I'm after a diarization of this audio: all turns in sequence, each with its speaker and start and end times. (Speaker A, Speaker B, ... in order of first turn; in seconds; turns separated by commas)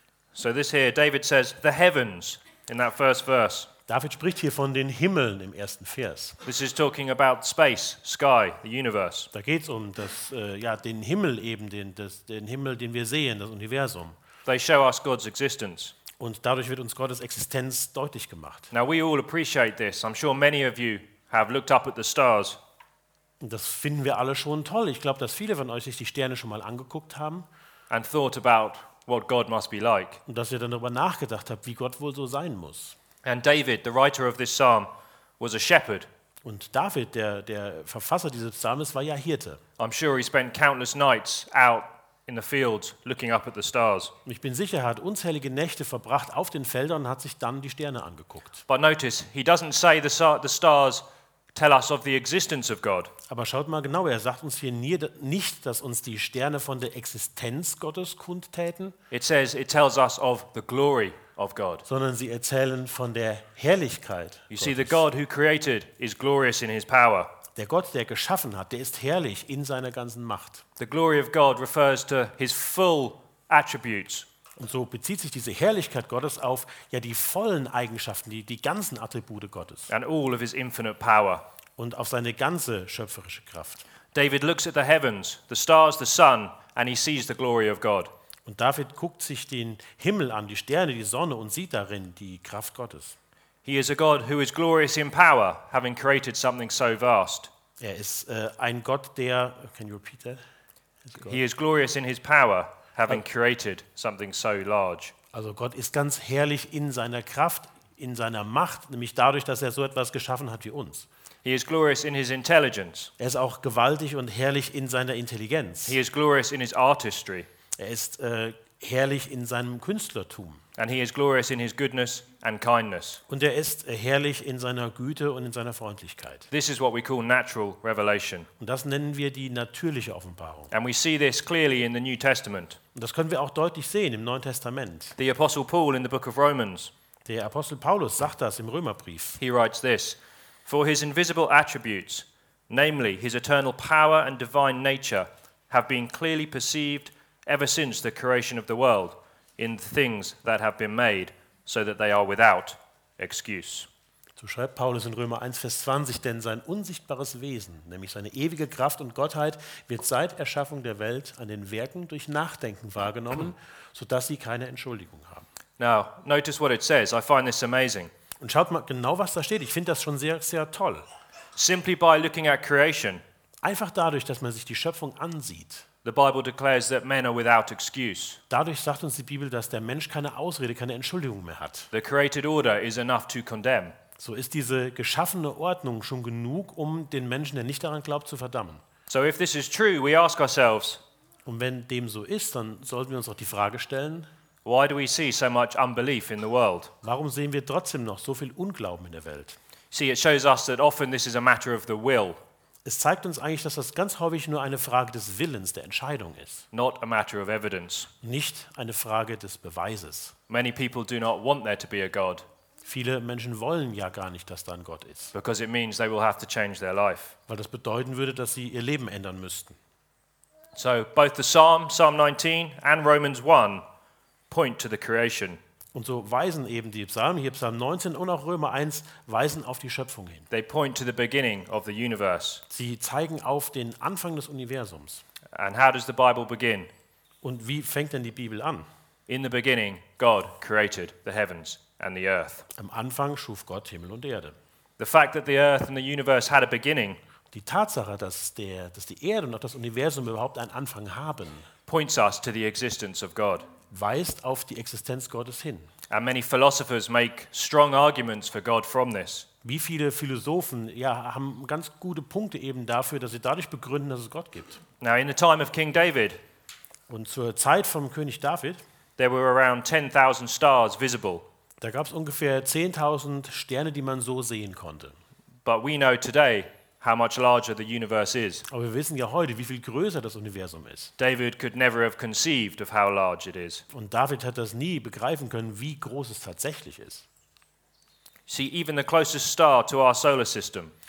Speaker A: 0.3-3.7, Speaker B: 3.9-6.4, Speaker A: 6.4-9.3, Speaker B: 9.3-14.2, Speaker A: 14.4-15.9, Speaker B: 16.2-18.7, Speaker A: 18.7-22.6, Speaker B: 23.4-27.5, Speaker A: 27.9-30.2, Speaker B: 30.3-33.0, Speaker A: 33.2-36.1, Speaker B: 36.4-39.6, Speaker A: 39.8-44.1, Speaker B: 44.2-48.6, Speaker A: 48.7-53.1, Speaker B: 53.3-59.0, Speaker A: 59.1-61.8, Speaker B: 61.9-65.0, Speaker A: 64.5-67.3, Speaker B: 67.5-70.6, Speaker A: 70.8-74.3, Speaker B: 74.6-79.9, Speaker A: 79.9-81.4, Speaker B: 81.8-83.8, Speaker A: 84.1-88.1, Speaker B: 88.4-93.2, Speaker A: 93.6-97.5, Speaker B: 97.8-100.4, Speaker B: 101.0-101.4, Speaker A: 101.2-105.1, Speaker B: 105.3-111.1, Speaker A: 111.4-113.1, Speaker B: 113.2-116.0, Speaker A: 115.9-117.5, Speaker B: 117.8-120.6, Speaker A: 120.8-123.2, Speaker B: 123.3-126.5, Speaker A: 126.5-128.5, Speaker B: 128.6-130.7, Speaker A: 130.7-132.8, Speaker B: 132.9-135.2, Speaker A: 135.2-136.9, Speaker B: 137.2-139.4, Speaker A: 139.4-153.9, Speaker B: 154.4-165.4, Speaker A: 165.8-168.1, Speaker B: 168.4-171.1, Speaker A: 171.6-173.2, Speaker B: 173.6-175.8, Speaker A: 176.0-178.4, Speaker B: 178.5-181.9, Speaker A: 181.9-183.9, Speaker B: 184.2-188.8, Speaker A: 189.1-191.0, Speaker B: 191.4-194.3, Speaker A: 194.7-196.9, Speaker B: 197.0-199.6, Speaker A: 199.9-202.4, Speaker B: 202.8-206.7, Speaker A: 206.7-208.1, Speaker B: 208.2-210.3, Speaker A: 210.5-212.4, Speaker B: 212.8-215.3, Speaker A: 215.3-217.3, Speaker B: 217.5-219.8, Speaker A: 220.7-223.8, Speaker A: 224.5-225.6, Speaker B: 225.9-230.5, Speaker A: 230.5-232.6, Speaker B: 232.7-235.2, Speaker A: 235.5-236.9, Speaker B: 237.4-238.8, Speaker A: 239.3-242.7, Speaker B: 242.7-244.6, Speaker A: 245.0-247.2, Speaker B: 247.5-251.7, Speaker A: 251.9-253.7, Speaker B: 253.9-255.9, Speaker A: 256.1-259.4, Speaker B: 259.6-264.8, Speaker A: 265.0-266.4, Speaker B: 267.1-268.8, Speaker A: 269.2-271.4, Speaker B: 271.8-275.1, Speaker A: 275.6-278.6, Speaker B: 278.7-281.1, Speaker A: 281.2-283.8, Speaker B: 283.9-287.2, Speaker A: 288.5-290.9